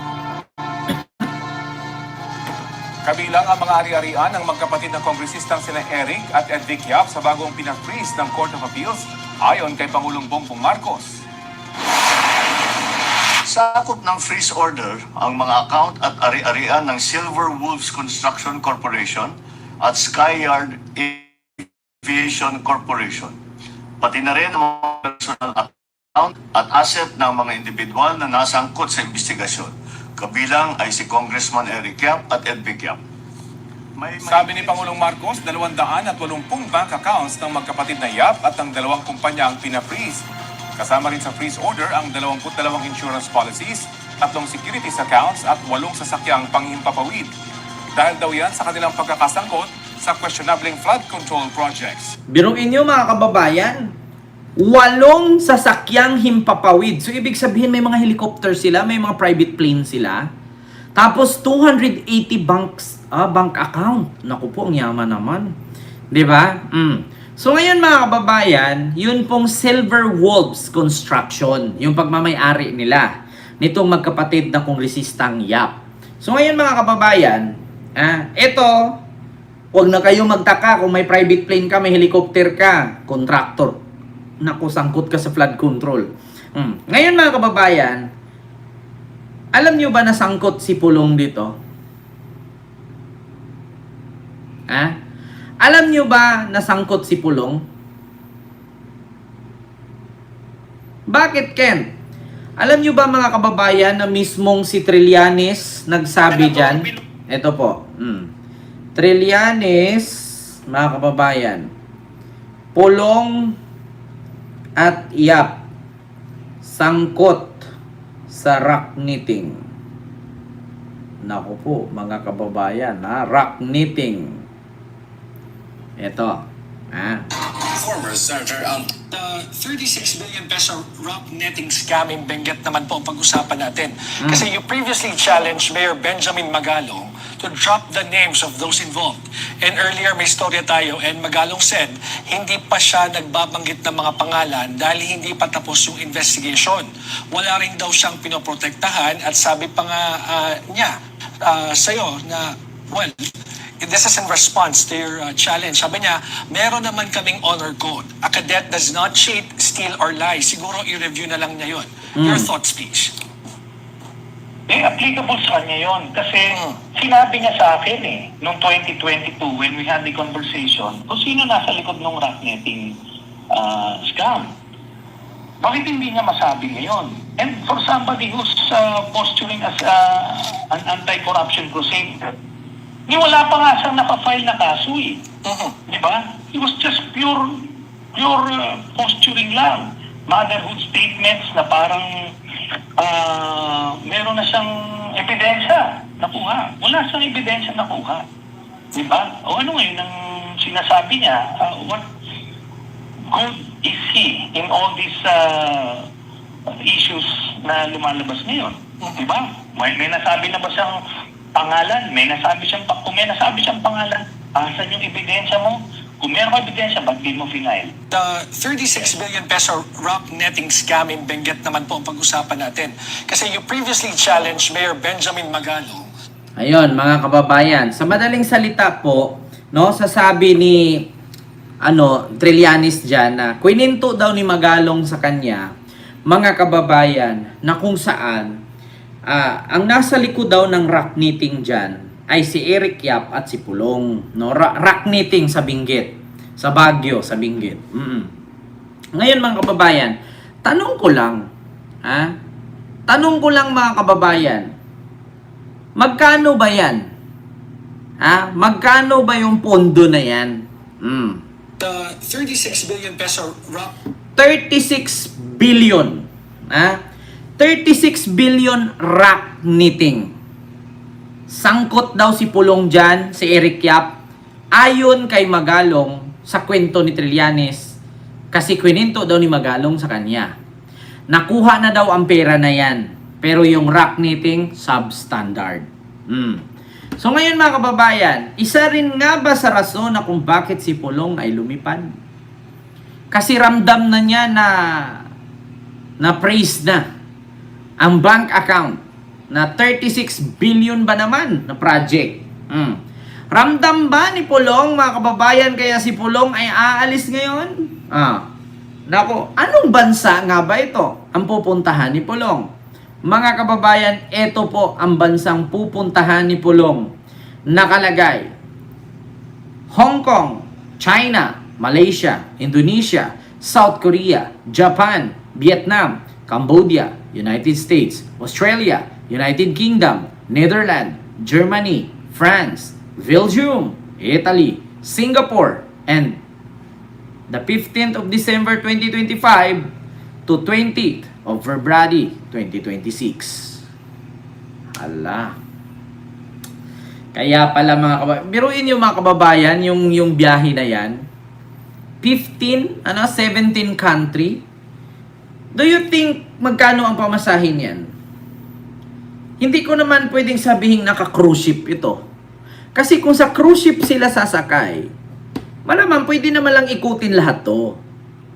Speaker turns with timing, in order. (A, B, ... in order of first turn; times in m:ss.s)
0:03.0-0:11.2 A
0:13.5-0:23.4 B
0:24.0-0:33.0 B
0:34.0-0:34.9 B
0:34.2-0:40.2 A
0:40.8-0:47.3 A
0:48.0-0:52.1 A
0:52.3-0:53.9 C
0:54.6-1:00.2 C
1:01.0-1:05.5 C
1:06.1-1:13.1 C
1:13.6-1:18.9 C
1:19.8-1:23.8 C
1:24.4-1:28.0 C
1:29.5-1:31.5 C
1:34.7-1:34.9 C
1:35.6-1:37.6 C
1:41.1-1:41.9 C
1:42.6-1:48.3 C
1:49.0-1:51.7 C
1:52.8-1:53.6 C
1:54.8-1:55.6 C
1:56.6-1:57.6 C
1:58.3-1:59.6 C
2:01.2-2:04.4 C
2:06.0-2:07.2 C
2:07.8-2:33.2 D
2:14.2-2:14.5 C
2:33.8-2:43.2 D
2:42.2-2:42.5 C
2:44.7-2:53.0 E
2:53.5-2:54.5 E
2:55.6-3:02.3 E
3:03.1-3:05.3 E
3:05.4-3:05.7 D
3:05.9-3:12.1 E
3:13.0-3:18.2 E
3:19.0-3:22.1 E
3:23.3-3:26.1 E
3:26.8-3:30.9 E
3:31.6-3:37.9 E
3:38.1-3:46.1 D
3:46.6-3:51.0 C
3:51.8-3:55.7 C
3:56.3-3:58.5 C
3:59.3-4:08.3 C
4:09.2-4:11.4 C
4:12.0-4:12.3 C
4:13.1-4:14.7 C
4:16.0-4:17.1 C
4:18.2-4:21.4 C
4:21.8-4:23.9 D
4:24.4-4:27.0 C
4:27.6-4:30.3 C
4:31.5-4:34.1 C
4:34.8-4:38.0 C
4:38.5-4:40.5 C
4:41.3-4:46.6 C
4:47.2-4:52.1 C
4:53.3-4:55.2 C
4:56.2-4:57.1 C
4:58.0-4:59.0 C
4:59.5-5:03.0 C
5:03.5-5:08.4 C
5:09.1-5:12.7 C
5:13.3-5:17.1 C
5:17.7-5:18.5 C
5:19.9-5:36.4 C
5:37.5-5:39.8 C
5:40.5-5:43.8 C
5:45.0-5:45.6 C
5:47.3-5:51.2 C
5:52.2-5:54.6 C
5:55.8-5:58.1 C
5:59.6-6:02.2 C
6:03.0-6:05.1 C
6:05.9-6:08.0 C